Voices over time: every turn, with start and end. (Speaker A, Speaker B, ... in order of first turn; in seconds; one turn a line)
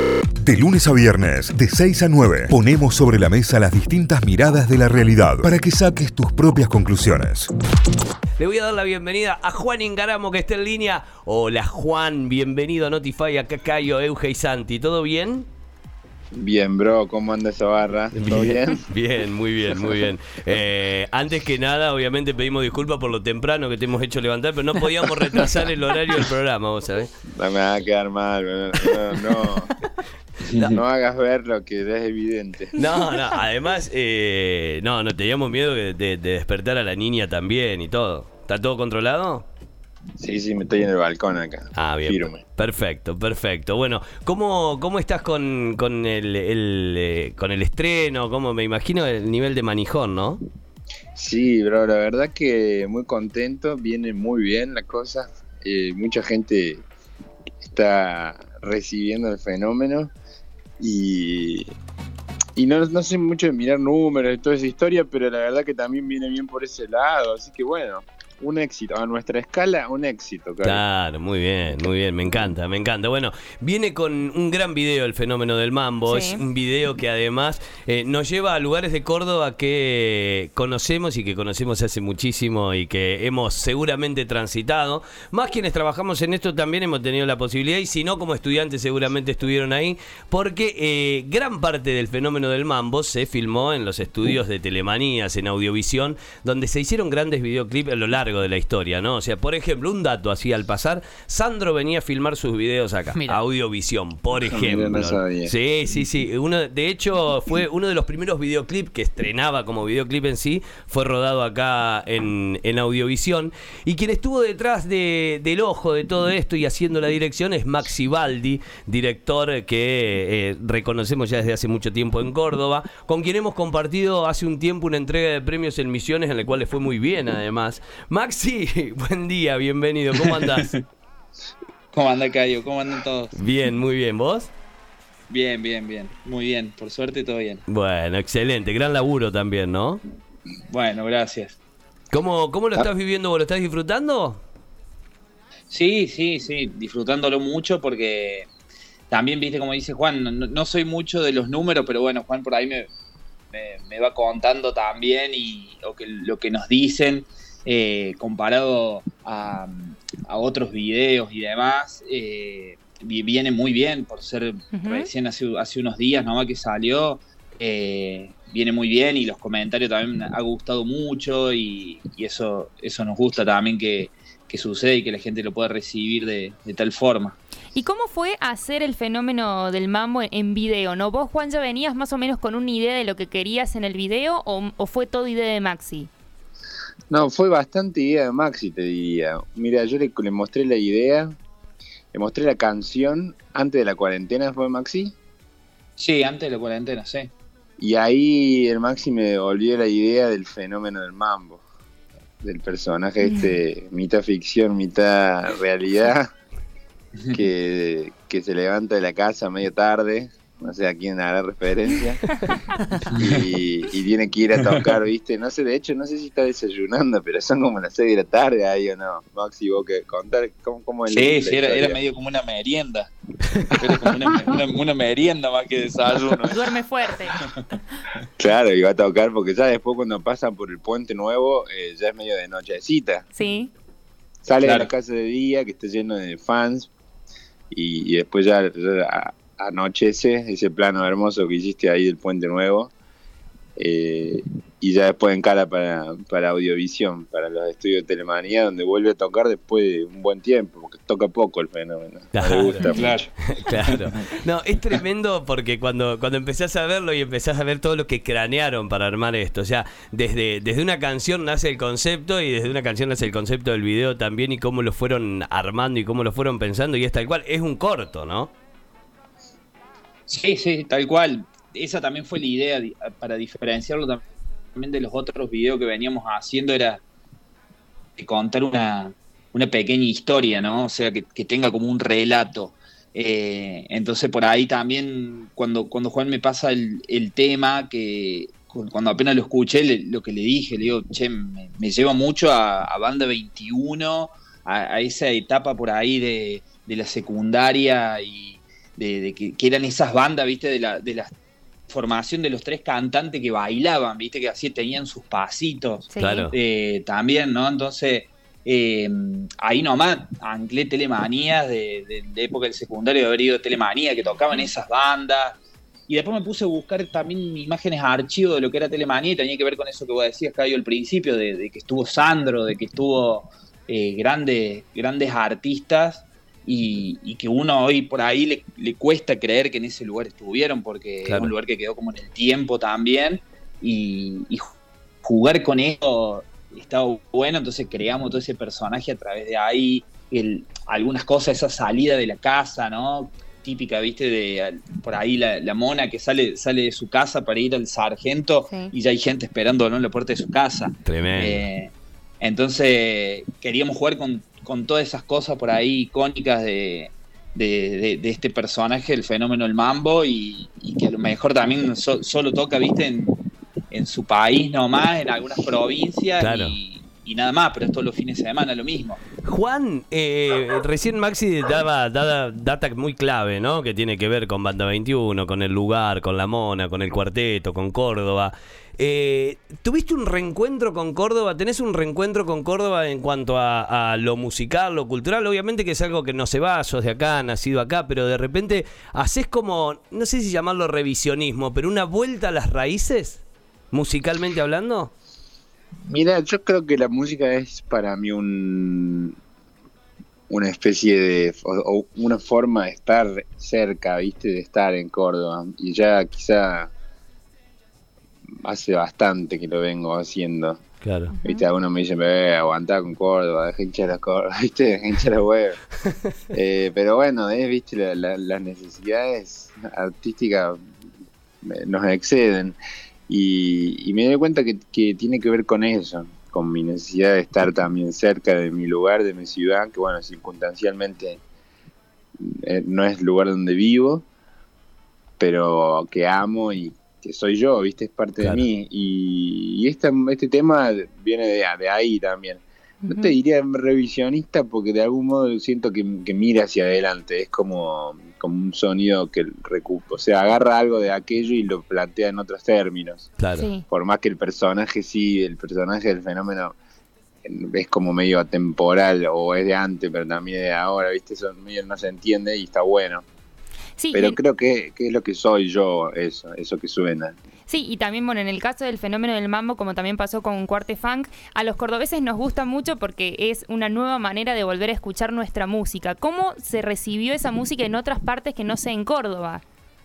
Speaker A: 0.4-7.5
Speaker B: 8.4-15.5
Speaker C: 16.3-18.9
Speaker B: 18.1-27.1
Speaker C: 27.3-29.7
Speaker D: 30.4-30.8
Speaker C: 30.7-32.7
Speaker B: 32.7-39.5
Speaker C: 40.2-42.4
Speaker B: 41.7-50.4
Speaker C: 51.1-56.8
Speaker C: 57.6-60.1
Speaker C: 60.8-61.7
Speaker C: 62.5-70.8
Speaker B: 70.6-130.7
Speaker E: 76.0-76.4
Speaker C: 104.4-105.5
Speaker D: 130.1-130.8
Speaker D: 131.9-133.3
Speaker B: 133.3-134.5
Speaker D: 135.3-137.6
Speaker B: 137.7-140.0
Speaker D: 140.7-141.6
Speaker B: 142.1-144.4
Speaker D: 145.7-148.5
Speaker D: 149.1-152.9
Speaker D: 153.5-177.4
Speaker E: 164.7-165.1
Speaker E: 177.7-186.1
Speaker C: 187.1-191.3
Speaker C: 192.1-195.1
Speaker D: 196.0-197.3
Speaker C: 197.8-201.6
Speaker C: 202.4-206.3
Speaker C: 207.3-212.2
Speaker C: 213.1-222.0
Speaker D: 221.1-223.1
Speaker D: 223.7-226.6
Speaker E: 226.5-227.4
Speaker C: 228.4-233.2
Speaker E: 233.3-233.7
Speaker C: 234.4-236.9
Speaker D: 234.6-234.9
Speaker C: 237.7-242.9
Speaker C: 243.8-253.3
Speaker B: 252.3-252.9
Speaker D: 252.9-253.3
Speaker B: 253.5-268.5
Speaker D: 270.3-274.2
Speaker D: 274.8-277.0
Speaker D: 278.2-301.3
Speaker D: 301.9-315.6
Speaker E: 306.1-306.5
Speaker B: 306.2-306.5
Speaker D: 316.1-334.7
Speaker B: 331.2-331.5
Speaker D: 335.2-363.4
Speaker E: 348.6-348.9
Speaker B: 351.0-351.6
Speaker D: 363.9-369.2
Speaker B: 366.4-366.8
Speaker B: 369.4-395.1
Speaker C: 396.1-399.3
Speaker C: 400.5-406.9
Speaker C: 408.6-410.8
Speaker B: 411.0-411.3
Speaker E: 411.4-411.7
Speaker C: 411.4-415.8
Speaker C: 416.5-420.8
Speaker C: 421.6-422.8
Speaker C: 423.3-431.4
Speaker C: 432.4-434.2
Speaker C: 435.4-453.3
Speaker E: 443.0-443.3
Speaker B: 453.4-453.7
Speaker E: 453.6-453.9
Speaker C: 453.9-456.7
Speaker C: 457.4-463.2
Speaker E: 464.0-464.4
Speaker C: 464.1-467.4
Speaker E: 467.7-479.6